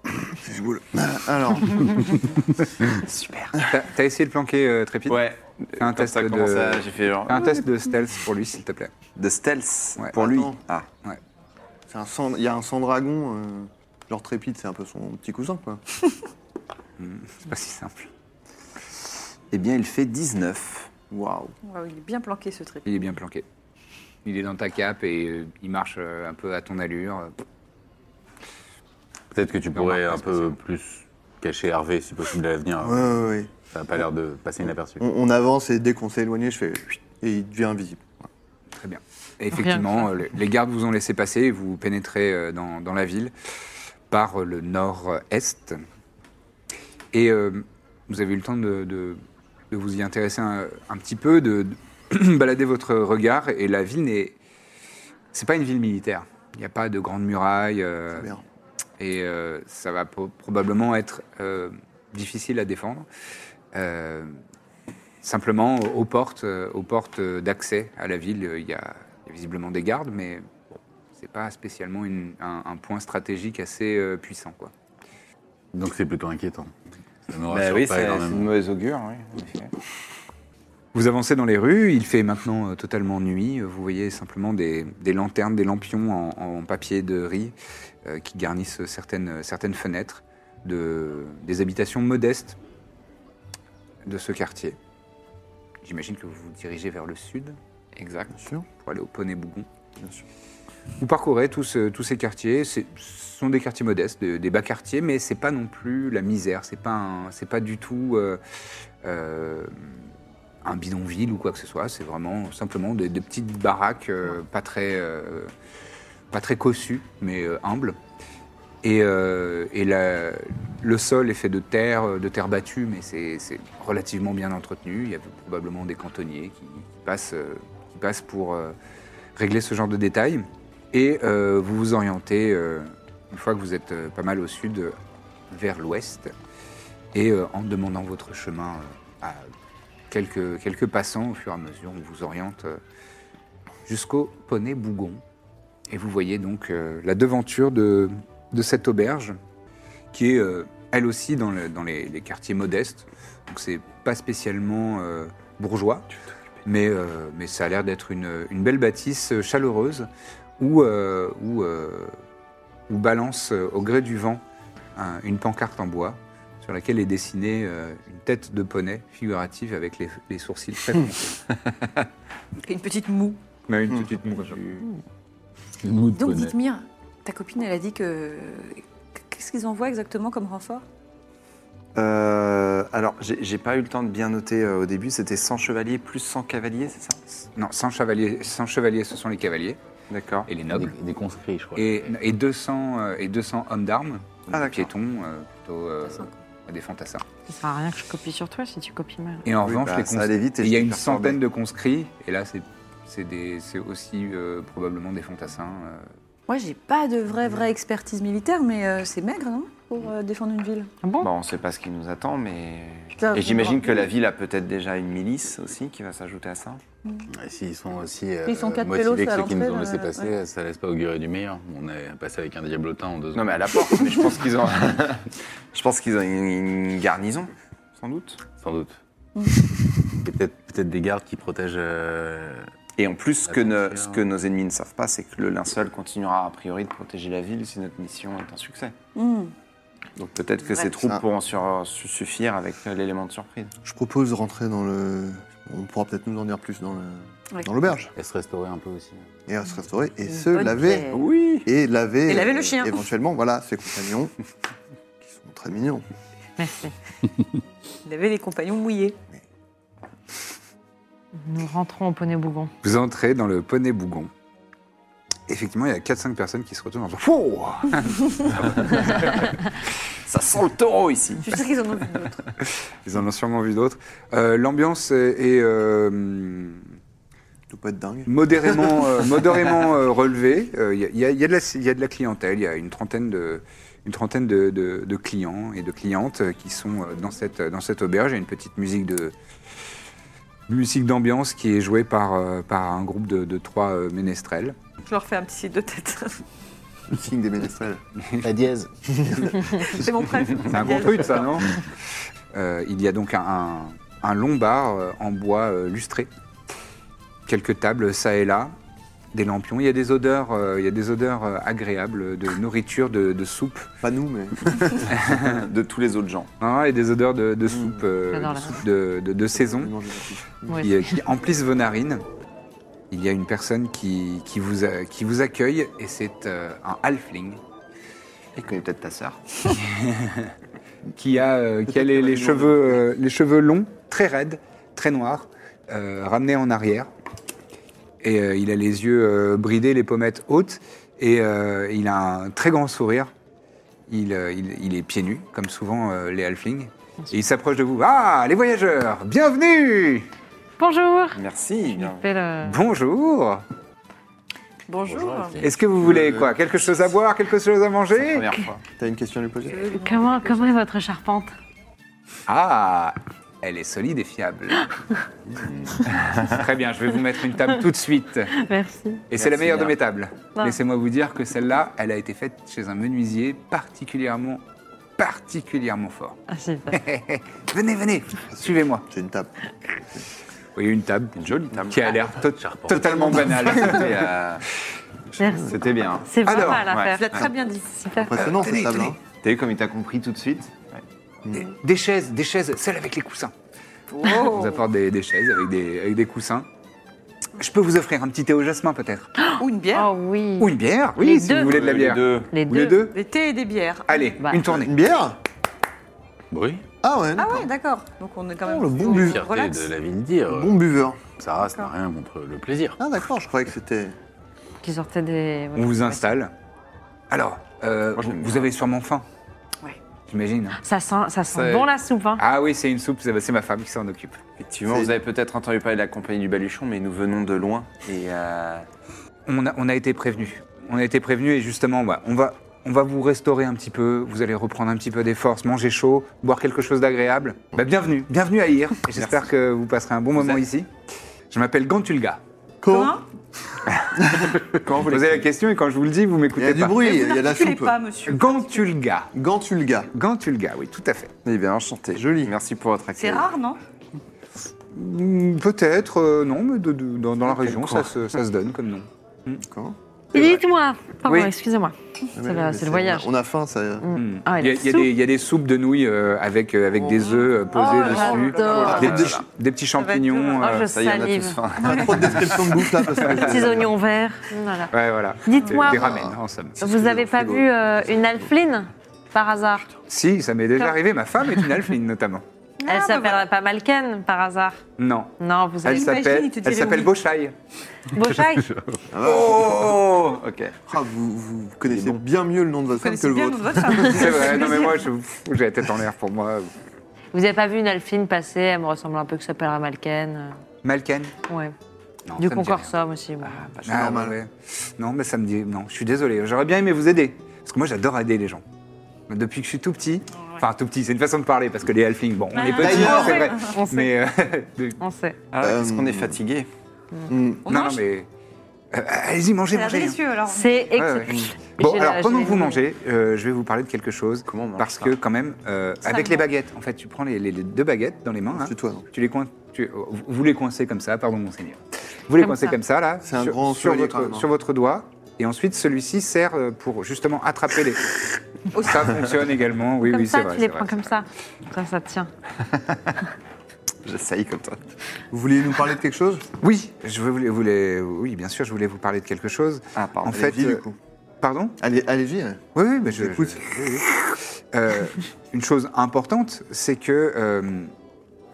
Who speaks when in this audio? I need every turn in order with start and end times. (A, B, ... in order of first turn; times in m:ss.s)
0:00.1-0:02.2 A
0:03.5-0:05.2 B
0:05.1-0:07.6 C
0:05.8-0:08.9 B
0:09.2-0:10.9 C
0:10.1-0:10.6 A
0:11.9-0:15.8 A
0:17.0-0:18.1 B
0:19.5-0:20.9 C
0:21.1-0:21.6 A
0:21.6-0:22.9 D
0:22.9-0:23.4 B
0:24.2-0:27.3 B
0:29.3-0:35.1 E
0:29.7-0:30.6 B
0:32.8-0:33.5 A
0:35.0-0:38.1 A
0:38.8-0:43.3 B
0:39.5-0:40.1 F
0:44.1-0:45.8 B
0:47.1-0:54.4 B
0:55.3-0:58.3 B
0:58.2-0:58.4 A
0:59.0-1:03.1 B
1:03.7-1:04.4 B
1:05.2-1:14.7 B
1:15.7-1:16.7 E
1:17.3-1:18.5 E
1:17.5-1:19.7 C
1:20.9-1:32.6 B
1:34.0-1:34.8 B
1:35.8-1:37.6 B
1:38.0-1:38.4 C
1:38.3-1:38.7 A
1:38.8-1:39.7 B
1:41.0-1:48.4 B
1:49.0-1:50.0 B
1:50.6-1:55.5 B
1:56.3-1:58.0 B
1:58.8-2:08.8 B
2:09.4-2:15.0 B
2:15.5-2:16.3 B
2:17.1-2:19.5 B
2:20.1-2:22.8 B
2:23.9-2:25.2 B
2:25.9-2:29.4 B
2:30.1-2:36.1 B
2:36.6-2:40.1 B
2:40.6-2:42.2 B
2:42.9-2:44.4 B
2:45.0-2:51.4 B
2:52.6-2:53.4 D
2:53.7-2:54.9 B
2:55.8-2:56.6 E
2:56.1-3:00.8 D
3:02.0-3:07.2 C
3:07.5-3:09.8 B
3:10.1-3:10.5 C
3:10.5-3:11.0 B
3:10.7-3:12.2 E
3:11.8-3:17.2 B
3:14.5-3:14.9 C
3:17.5-3:19.4 F
3:19.4-3:26.1 B
3:19.6-3:21.4 A
3:26.5-3:30.9 D
3:31.0-3:31.3 F
3:31.2-3:36.8 C
3:33.2-3:34.1 D
3:37.3-3:44.0 E
3:38.5-3:40.3 D
3:43.3-3:48.4 C
3:48.6-3:49.0 E
3:50.2-3:52.7 E
3:53.0-3:59.0 C
3:53.5-3:54.2 E
3:59.2-3:59.5 D
4:00.2-4:03.7 C
4:01.0-4:01.2 A
4:03.8-4:08.1 A
4:08.2-4:09.3 E
4:09.5-4:11.0 A
4:10.3-4:11.3 D
4:11.1-4:11.7 C
4:11.6-4:14.3 A
4:12.3-4:13.0 D
4:15.2-4:16.0 A
4:16.6-4:17.0 F
4:18.0-4:19.2 D
4:21.4-4:22.7 F
4:22.8-4:24.3 B
4:25.5-4:29.4 B
4:30.2-4:31.5 C
4:31.4-4:32.4 D
4:33.0-4:36.9 B
4:37.7-4:39.1 A
4:38.3-4:49.3 B
4:50.7-4:54.8 B
4:55.1-4:56.4 D
4:57.1-4:58.0 A
4:58.2-4:58.5 B
4:58.4-4:59.5 E
4:59.1-4:59.5 A
4:59.8-5:01.7 D
5:00.7-5:01.8 B
5:02.5-5:06.3 B
5:07.5-5:08.7 B
5:09.3-5:13.9 B
5:14.0-5:15.1 A
5:15.1-5:16.5 C
5:16.6-5:19.9 B
5:17.7-5:18.0 A
5:18.3-5:18.8 F
5:19.6-5:20.8 A
5:20.7-5:21.1 F
5:20.8-5:22.2 B
5:23.1-5:27.6 B
5:28.6-5:29.4 C
5:29.8-5:30.5 B
5:31.2-5:37.1 B
5:32.0-5:32.8 A
5:38.2-5:43.3 B
5:44.1-5:50.3 B
5:50.8-5:51.4 F
5:51.3-5:52.2 C
5:51.9-5:52.8 F
5:52.6-5:53.6 B
5:54.9-5:55.6 D
5:55.0-5:55.7 E
5:55.6-5:58.5 B
5:58.1-5:58.8 C
5:59.0-5:59.9 A
5:59.7-6:00.7 D
6:00.0-6:01.5 F
6:02.5-6:04.9 B
6:05.5-6:06.2 E
6:06.3-6:08.6 B
6:08.5-6:09.2 F
6:09.3-6:14.6 B
6:09.4-6:10.0 C
6:15.2-6:16.4 B
6:16.5-6:17.0 F
6:16.9-6:19.1 B
6:18.6-6:20.3 A
6:20.8-6:21.4 B
6:21.4-6:22.3 C
6:21.9-6:24.3 B
6:22.6-6:23.5 E
6:23.1-6:24.6 C
6:25.4-6:25.7 A
6:25.4-6:27.4 F
6:25.7-6:27.5 C
6:26.4-6:26.9 B
6:27.0-6:28.1 D
6:28.0-6:28.4 F
6:28.1-6:29.2 A
6:28.4-6:29.2 B
6:29.4-6:31.0 C
6:31.5-6:33.5 B
6:34.1-6:34.8 D
6:34.3-6:36.7 B
6:37.6-6:39.3 B
6:39.4-6:41.7 F
6:39.6-6:40.1 D
6:40.6-6:43.2 B
6:41.5-6:42.5 C
6:42.5-6:43.1 F
6:43.0-6:44.4 D
6:44.1-6:45.0 B
6:44.4-6:44.7 F
6:44.7-6:45.4 A
6:46.5-6:46.8 E
6:47.0-6:47.6 A
6:47.4-6:49.9 D
6:48.6-6:49.4 A
6:49.0-6:53.0 E
6:50.5-6:51.2 A
6:51.6-6:51.9 D
6:53.0-6:54.2 A
6:54.8-6:56.2 F
6:55.8-6:56.5 B
6:57.3-6:59.3 B
6:58.2-6:58.7 C
7:00.3-7:00.8 B
7:00.8-7:02.4 F
7:01.5-7:01.9 C
7:02.4-7:04.4 B
7:04.6-7:08.9 C
7:09.5-7:20.9 B
7:19.1-7:19.5 C
7:20.4-7:20.6 C
7:21.5-7:22.4 B
7:22.8-7:23.2 A
7:22.9-7:23.2 D
7:24.2-7:24.6 A
7:24.5-7:25.5 C
7:25.0-7:27.1 B
7:26.6-7:28.0 A
7:27.0-7:28.9 D
7:28.3-7:29.3 B
7:29.3-7:30.1 A
7:30.1-7:31.3 B
7:31.4-7:33.5 C
7:32.2-7:32.5 A
7:33.2-7:33.8 D
7:34.9-7:39.6 B
7:37.5-7:38.1 C
7:39.6-7:40.0 A
7:40.3-7:43.3 F
7:41.2-7:41.5 B
7:42.4-7:44.1 A
7:44.0-7:45.1 F
7:44.2-7:50.9 B
7:47.7-7:49.1 D
7:48.5-7:49.4 A
7:48.5-7:49.4 C
7:49.9-7:50.7 D
7:50.6-7:51.6 F
7:50.9-7:52.9 C
7:51.8-7:52.3 D
7:51.8-7:53.9 A
7:53.2-7:54.9 F
7:54.9-7:56.8 B
7:55.4-7:56.3 F
7:56.8-7:59.9 F
7:56.8-7:57.7 A
8:00.1-8:02.4 B
8:02.8-8:03.5 D
8:02.9-8:04.8 F
8:05.0-8:07.6 B
8:05.4-8:06.1 F
8:05.9-8:07.2 D
8:08.1-8:08.7 F
8:09.1-8:10.0 A
8:09.2-8:10.8 C
8:10.9-8:14.4 A
8:11.9-8:12.2 C
8:12.9-8:15.1 D
8:14.0-8:16.7 B
8:17.3-8:20.6 F
8:20.8-8:21.3 B
8:21.5-8:21.7 F
8:22.3-8:22.9 B
8:22.4-8:23.6 F
8:23.4-8:24.2 C
8:23.9-8:28.6 B
8:23.9-8:24.4 A
8:29.3-8:35.0 B
8:32.5-8:33.7 D
8:32.7-8:33.5 A
8:33.6-8:34.1 F
8:35.0-8:35.4 F
8:35.5-8:36.7 C
8:35.6-8:36.4 A
8:37.3-8:37.6 A
8:37.6-8:38.0 D
8:37.7-8:38.3 B
8:38.9-8:40.2 B
8:39.7-8:41.1 D
8:40.5-8:42.8 F
8:41.0-8:58.2 B
8:44.5-8:45.2 C
8:46.0-8:46.5 D
8:48.5-8:49.1 A
8:52.4-8:52.8 F
8:53.2-8:54.5 A
8:58.7-9:01.1 B
9:00.0-9:02.3 F
9:02.6-9:03.2 C
9:04.0-9:04.9 C
9:05.3-9:06.5 A
9:06.6-9:10.8 B
9:10.0-9:10.5 C
9:10.3-9:11.0 A
9:11.4-9:11.8 B
9:11.8-9:14.1 A
9:12.8-9:14.0 B
9:14.7-9:17.9 B